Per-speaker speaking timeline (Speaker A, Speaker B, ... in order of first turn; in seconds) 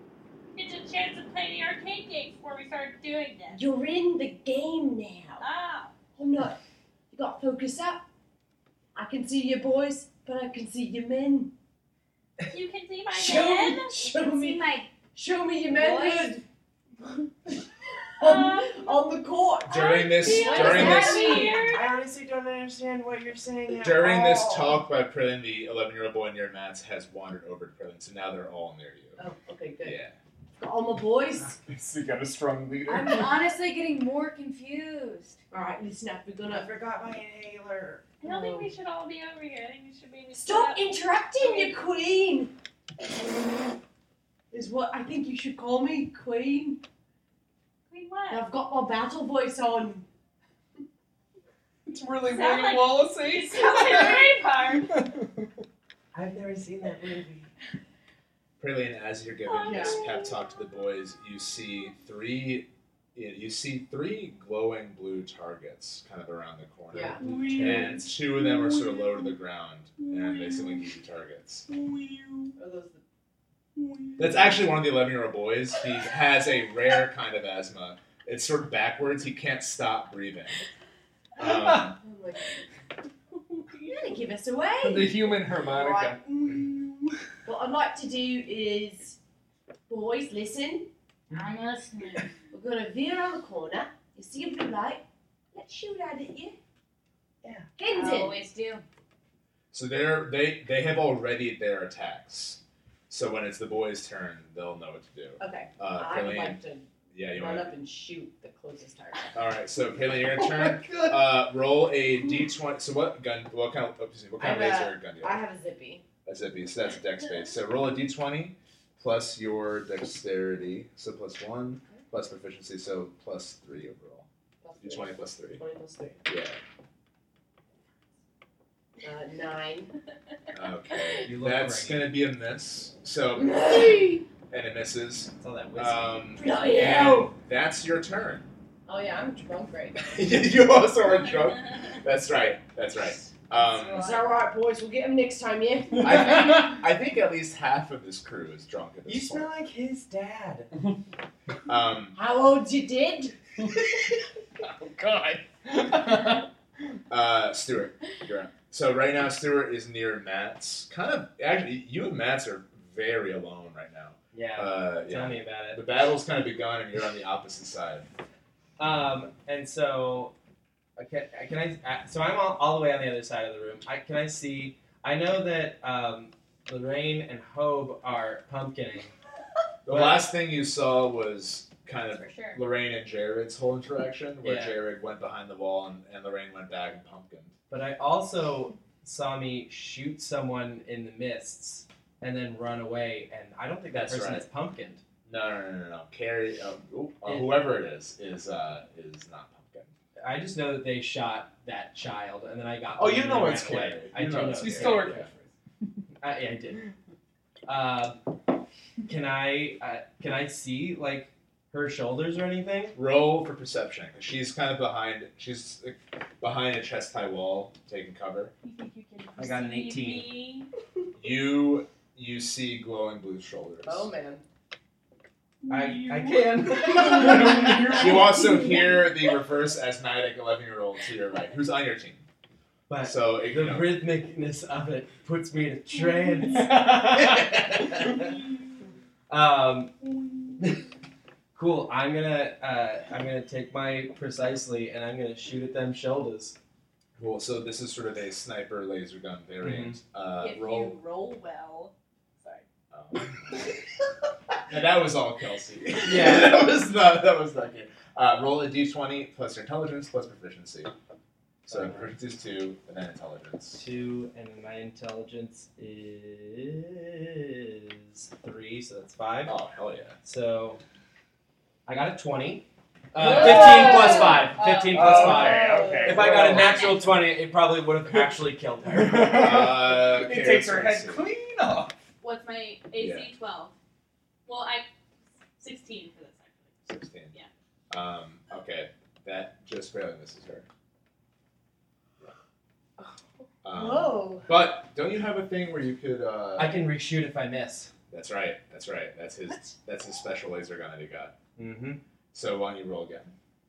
Speaker A: 0.5-3.6, 5.4-5.9, 12.5-13.9, 18.2-18.9, 20.1-21.9, 38.2-41.8, 47.9-48.4, 52.2-54.9, 59.5-60.3, 136.4-137.3, 218.6-220.7, 225.6-227.0, 250.4-252.6, 282.2-283.7, 284.4-284.9, 285.6-286.7
Speaker B: 3.5-5.4, 6.2-6.6, 7.1-8.0, 8.9-11.5, 13.1-16.4, 18.2-21.7, 29.2-30.0, 30.6-31.6, 35.5-36.7, 38.2-38.6, 40.3-42.5, 44.5-46.8, 48.3-50.1, 59.6-60.0, 66.9-67.2, 72.6-73.0, 82.0-82.6, 83.6-89.2, 89.9-90.9, 92.5-96.6, 97.8-98.4, 105.4-109.4, 114.4-116.0, 124.6-126.3, 129.0-129.9, 133.4-134.2, 138.8-140.4, 144.0-146.7, 152.1-153.3, 223.8-224.4, 275.1-276.4, 293.7-294.5
Speaker C: 14.0-14.9, 15.7-16.4, 20.4-21.7, 32.9-35.4, 91.3-92.3, 97.8-98.8, 182.1-182.6, 276.6-277.0
Speaker D: 19.7-21.4, 23.8-29.2, 29.8-30.2, 58.6-71.7, 74.2-80.6, 81.3-82.0, 99.7-106.6, 107.1-107.7, 109.3-115.4, 116.2-124.2, 124.8-125.6, 126.2-126.6, 130.5-138.5, 140.1-144.1, 146.0-149.5, 151.7-152.2, 157.1-168.1, 179.8-187.5, 193.9-194.4, 195.2-199.9, 203.0-205.3, 212.9-218.5, 221.2-224.1, 227.9-232.2, 233.0-233.9, 247.2-250.9, 252.9-253.6, 254.7-260.9, 261.7-263.8, 269.4-270.1, 279.1-281.3, 283.0-283.3, 286.9-287.3, 287.9-290.7, 293.6-296.9, 298.1-301.3, 302.3-303.3
Speaker E: 21.7-24.7, 36.5-38.0, 56.1-57.5, 67.2-68.0, 131.2-132.1, 135.4-136.1, 149.1-150.7, 164.3-165.8, 168.8-170.3, 171.0-179.1, 179.9-180.2, 184.4-184.8, 187.7-195.0, 197.2-197.6, 200.2-205.2, 206.2-206.8, 207.7-208.2, 209.1-212.9, 219.4-220.4, 225.7-227.6, 232.9-238.3, 239.3-239.9, 240.6-240.8, 241.5-246.5, 249.6-250.0, 256.0-256.6, 261.7-262.1, 263.8-269.6, 270.2-270.8, 271.9-279.6, 296.6-297.9, 301.6-302.0
Speaker F: 31.6-33.5, 51.9-55.3, 67.2-68.1, 71.7-72.5, 81.4-81.9, 84.8-86.2, 110.6-111.1, 146.0-146.6, 154.6-156.4, 204.5-205.5, 226.8-228.6, 236.6-237.6, 273.1-276.9, 278.9-282.0